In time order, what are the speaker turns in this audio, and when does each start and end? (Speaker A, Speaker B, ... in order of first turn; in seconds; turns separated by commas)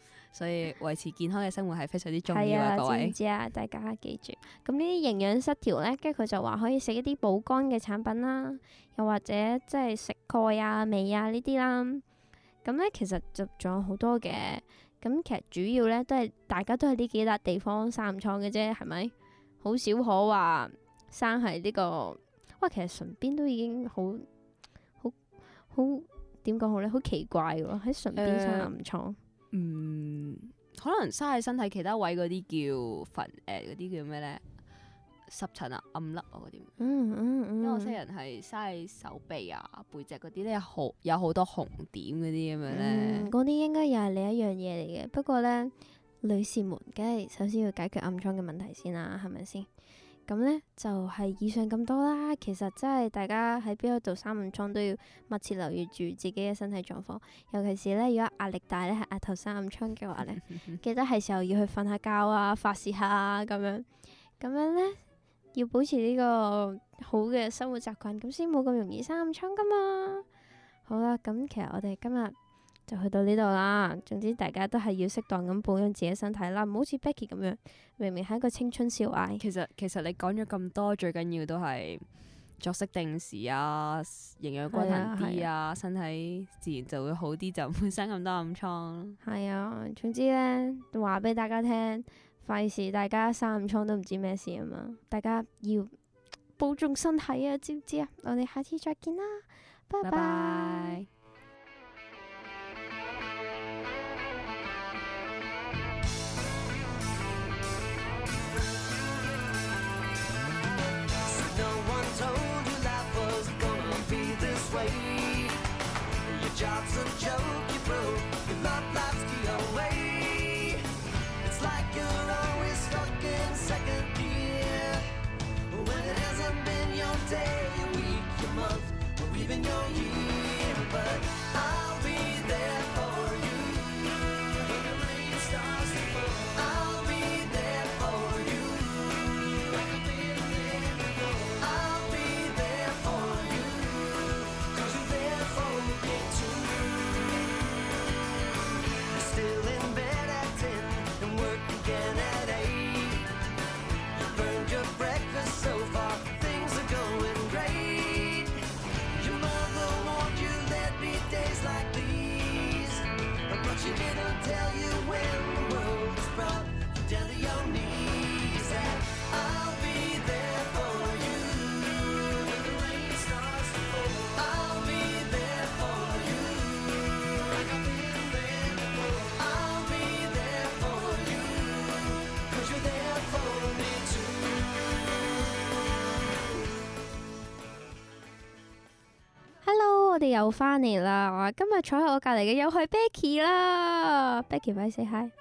Speaker A: 0.3-3.1, Speaker B: 2.3-12.0, Speaker B: 12.6-24.3, Speaker B: 25.7-29.2, Speaker A: 28.2-28.7, Speaker A: 29.5-34.4, Speaker A: 35.3-36.7, Speaker B: 36.8-38.0, Speaker A: 37.6-43.3, Speaker B: 42.7-49.7, Speaker B: 50.3-63.9, Speaker B: 64.4-65.0, Speaker B: 65.5-70.2, Speaker B: 70.9-72.3, Speaker B: 72.9-79.4, Speaker A: 79.4-82.0, Speaker A: 82.6-89.2, Speaker B: 84.7-85.5, Speaker B: 89.2-95.9, Speaker B: 96.6-101.0, Speaker A: 100.0-101.1, Speaker C: 111.2-115.6, Speaker C: 116.3-120.9, Speaker C: 121.4-125.1, Speaker C: 125.7-147.7, Speaker C: 149.0-153.3, Speaker C: 154.1-184.7, Speaker B: 189.6-195.3